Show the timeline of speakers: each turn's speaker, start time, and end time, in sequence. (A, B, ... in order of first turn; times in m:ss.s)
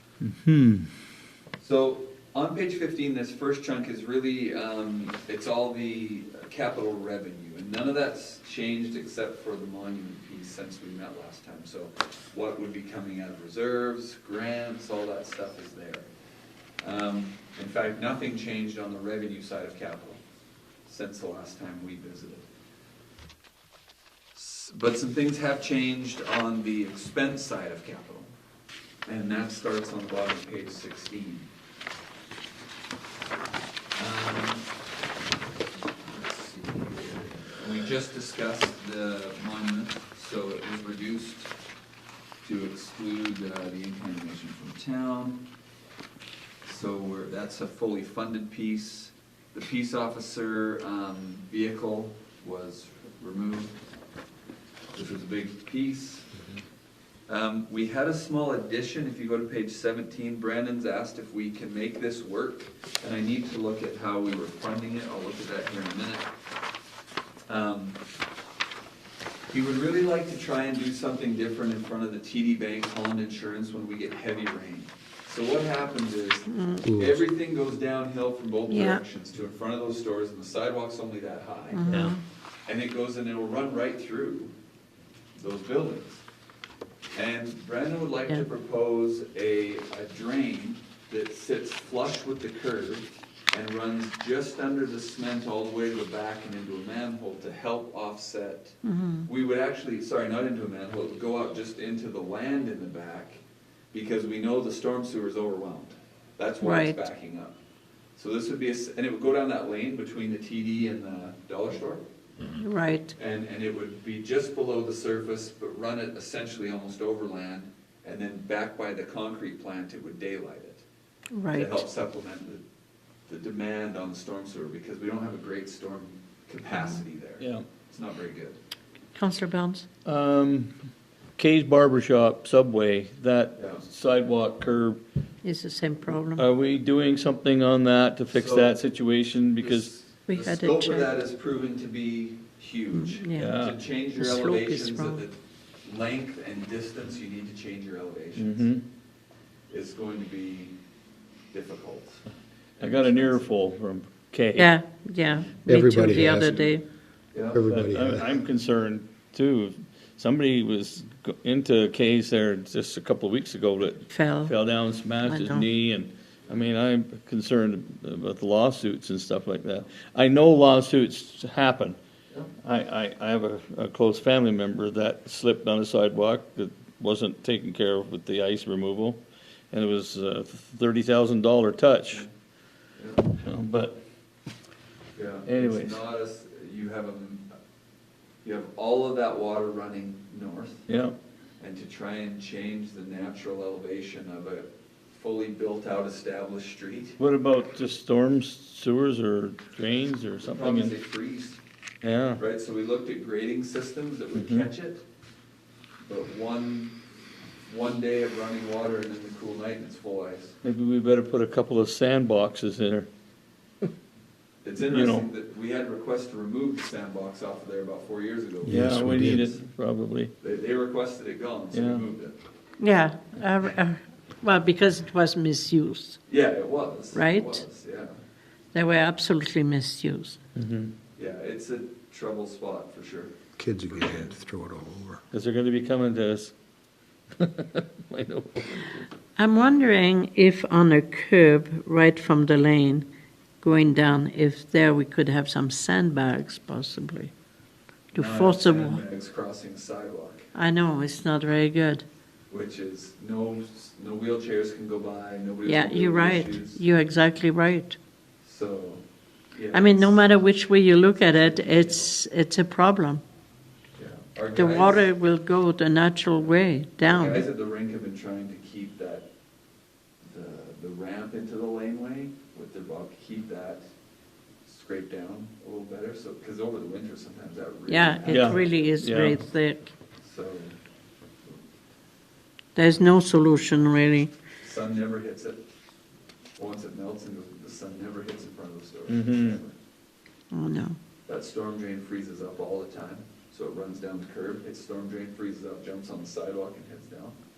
0:00.2-0:01.0 A
0:01.6-0:16.1 B
0:16.8-0:20.2 B
0:20.8-0:22.4 B
0:24.3-0:28.3 B
0:29.0-0:31.5 B
0:34.0-0:34.7 B
0:36.0-0:41.5 B
0:42.4-0:45.4 B
0:46.6-0:53.8 B
0:54.9-0:56.3 B
0:57.3-1:06.3 B
1:07.5-1:08.0 B
1:09.5-1:22.1 B
1:16.5-1:16.9 C
1:16.8-1:17.2 D
1:18.7-1:19.0 C
1:21.7-1:22.2 C
1:22.6-1:24.5 B
1:25.4-1:26.2 B
1:27.1-1:43.4 B
1:38.8-1:39.3 C
1:43.9-1:47.6 B
1:46.6-1:47.0 C
1:48.2-1:52.0 B
1:52.6-1:53.1 C
1:53.1-2:00.8 B
2:01.3-2:01.8 C
2:01.5-2:02.6 B
2:03.3-2:08.6 B
2:07.4-2:07.6 A
2:09.1-2:09.8 C
2:10.0-2:10.7 A
2:11.4-2:15.0 A
2:13.6-2:13.9 B
2:15.4-2:16.4 C
2:16.3-2:19.9 A
2:18.3-2:18.8 B
2:19.5-2:28.7 B
2:20.3-2:21.1 C
2:22.9-2:23.5 C
2:23.4-2:23.8 A
2:24.1-2:25.2 C
2:28.4-2:28.8 A
2:29.7-2:30.8 B
2:31.5-2:32.2 B
2:32.8-2:33.5 B
2:32.8-2:34.7 A
2:34.6-2:36.8 C
2:35.2-2:35.5 B
2:35.6-2:36.7 D
2:37.3-2:37.6 B
2:37.5-2:38.3 D
2:37.6-2:52.0 A
2:44.1-2:44.5 C
2:45.2-2:45.7 C
2:52.6-3:02.2 A
3:03.0-3:03.3 B
3:03.4-3:04.0 A
3:05.1-3:07.5 B
3:05.4-3:06.0 A
3:08.4-3:10.9 B
3:10.9-3:11.1 A
3:11.6-3:17.2 B
3:17.2-3:20.9 A
3:20.4-3:21.6 B
3:22.0-3:22.4 A
3:22.3-3:25.0 B
3:24.3-3:24.7 A
3:26.0-3:27.0 B
3:27.7-3:30.5 B
3:30.6-3:33.1 A
3:34.6-3:39.6 B
3:34.9-3:35.3 A
3:38.6-3:39.5 D
3:38.7-3:40.3 A
3:40.4-3:42.4 B
3:41.7-3:42.0 A
3:42.8-3:46.2 C
3:46.3-3:48.1 B
3:47.1-3:47.6 C
3:48.7-3:50.4 C
3:50.6-3:50.9 A
3:51.2-3:53.3 B
3:53.6-3:55.2 D
3:55.3-3:56.5 A
3:57.4-3:59.0 A
3:59.4-4:03.1 C
4:03.6-4:07.3 C
4:08.1-4:09.0 C
4:08.1-4:10.4 B
4:10.5-4:12.0 C
4:12.5-4:16.8 B
4:15.6-4:18.0 C
4:18.4-4:20.2 B
4:19.7-4:23.2 C
4:21.2-4:22.1 B
4:24.0-4:25.1 B
4:24.6-4:27.4 C
4:27.0-4:29.2 B
4:30.3-4:33.8 B
4:34.6-4:38.7 B
4:37.9-4:39.9 C
4:38.3-4:39.4 A
4:40.2-4:40.7 B
4:42.7-4:44.3 C
4:42.9-4:43.9 B
4:44.6-4:45.6 B
4:46.6-4:49.7 B
4:49.1-4:49.6 A
4:50.5-4:51.0 C
4:51.3-4:57.3 B